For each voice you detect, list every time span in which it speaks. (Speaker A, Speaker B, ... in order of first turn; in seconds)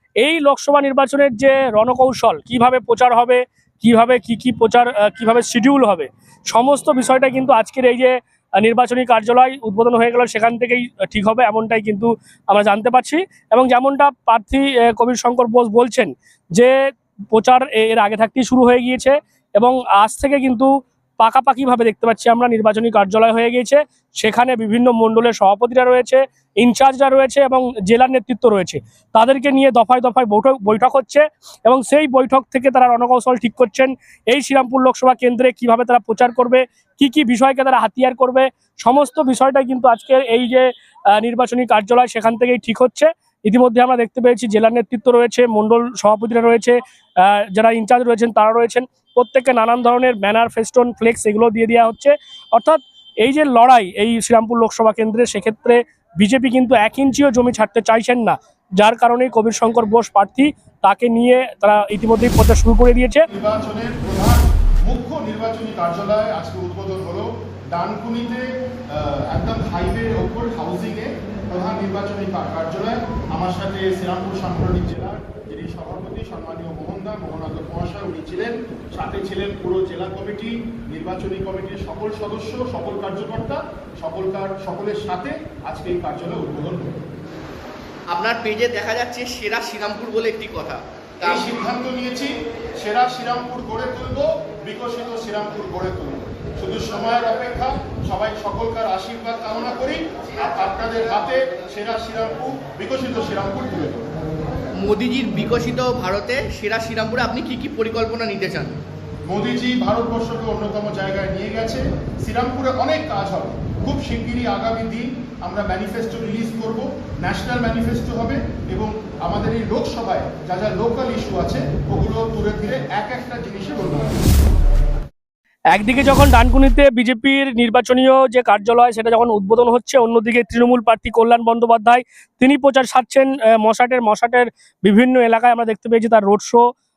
Speaker A: 0.2-16.7, 17.3-63.2, 125.7-136.6
Speaker B: 63.3-87.0, 91.2-104.0, 109.3-124.2
Speaker C: 88.1-91.5, 104.8-108.8